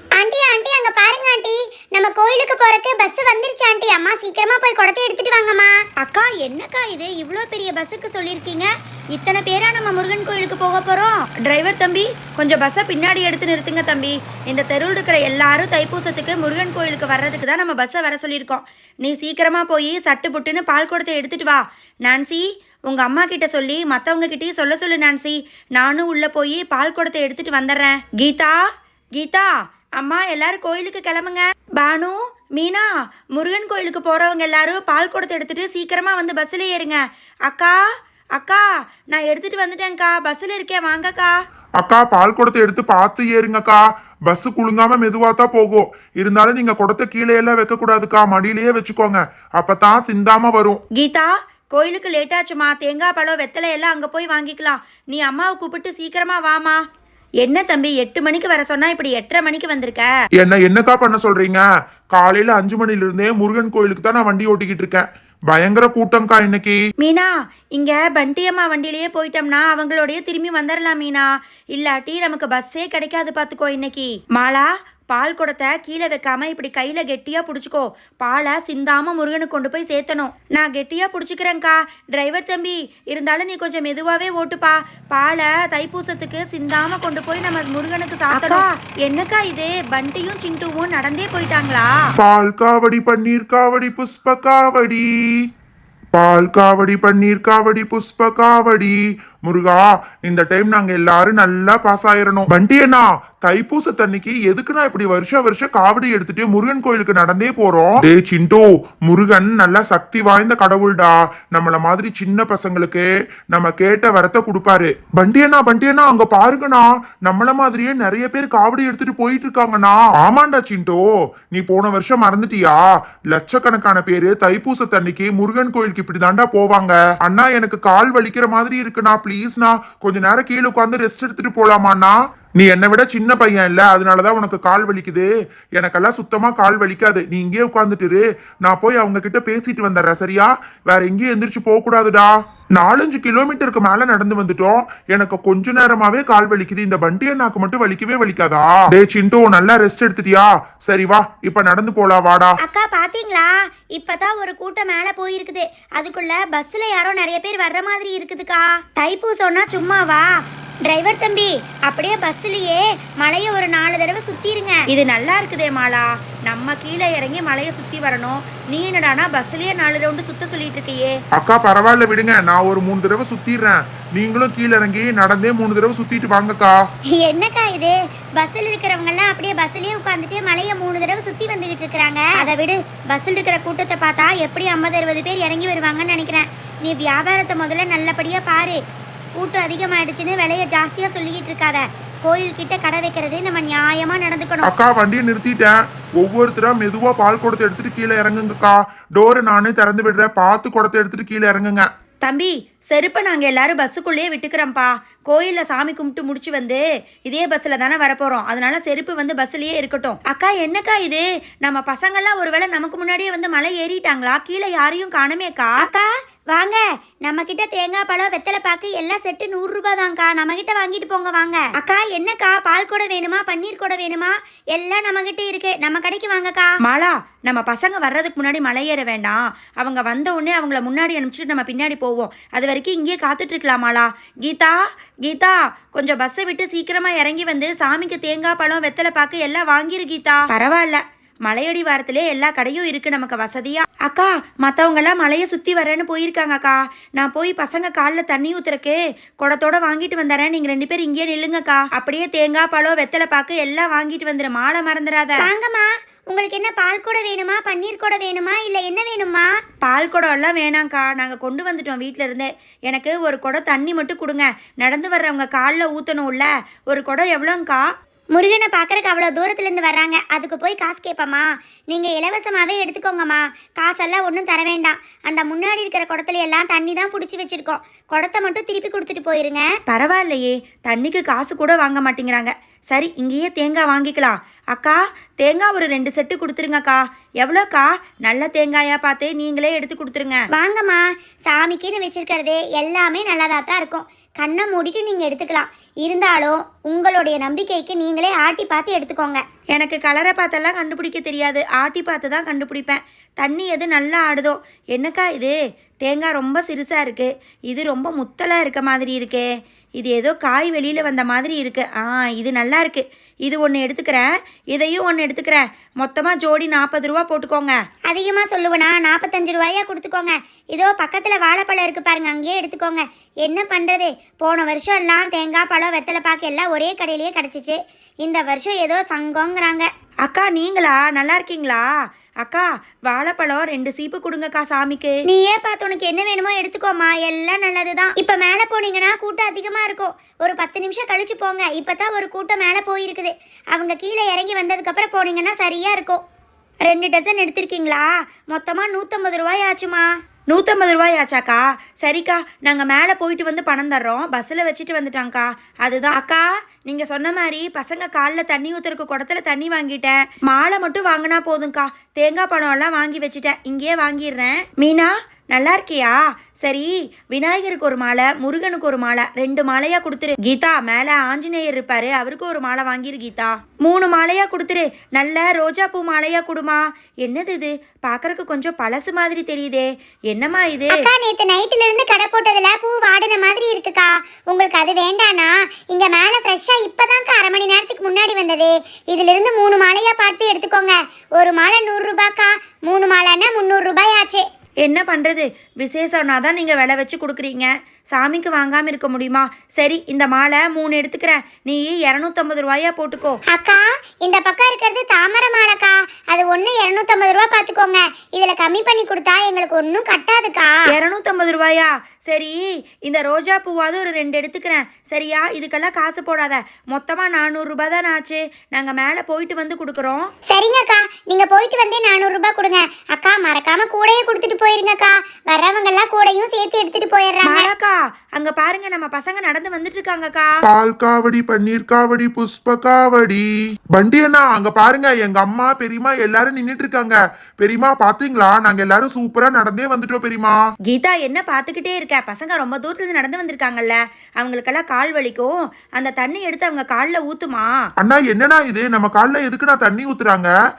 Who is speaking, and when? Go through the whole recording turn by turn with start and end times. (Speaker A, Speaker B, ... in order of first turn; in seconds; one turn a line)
Speaker A: 0.2-11.2
Speaker B: 11.4-28.6
Speaker B: 29.1-37.8
Speaker B: 38.4-41.4
Speaker C: 41.8-50.8
Speaker B: 51.0-56.8
Speaker B: 57.4-60.1
Speaker C: 60.4-66.8
Speaker B: 67.0-91.9
Speaker A: 88.3-88.6
Speaker C: 92.2-95.1
Speaker C: 96.1-152.6
Speaker A: 152.6-160.3
Speaker A: 160.8-164.8
Speaker B: 164.9-171.1
Speaker C: 171.4-176.8
Speaker A: 177.1-188.8
Speaker A: 189.4-194.7
Speaker C: 194.6-201.8
Speaker B: 202.2-215.8
Speaker A: 215.8-226.8
Speaker B: 226.8-255.5
Speaker A: 255.4-259.5
Speaker B: 259.8-267.8
Speaker A: 268.3-279.7
Speaker B: 279.9-290.4
Speaker A: 290.5-299.4
Speaker B: 299.7-309.5
Speaker B: 310.0-317.8
Speaker A: 318.1-329.9
Speaker B: 330.2-331.9
Speaker B: 332.4-335.2
Speaker A: 335.3-346.2
Speaker A: 346.9-350.2
Speaker B: 350.5-381.1
Speaker A: 380.9-394.4
Speaker B: 394.8-403.4
Speaker A: 403.5-410.8
Speaker B: 410.9-420.3
Speaker A: 420.5-427.7
Speaker B: 427.4-430.5
Speaker C: 430.6-440.6
Speaker B: 440.9-447.7
Speaker C: 448.0-450.5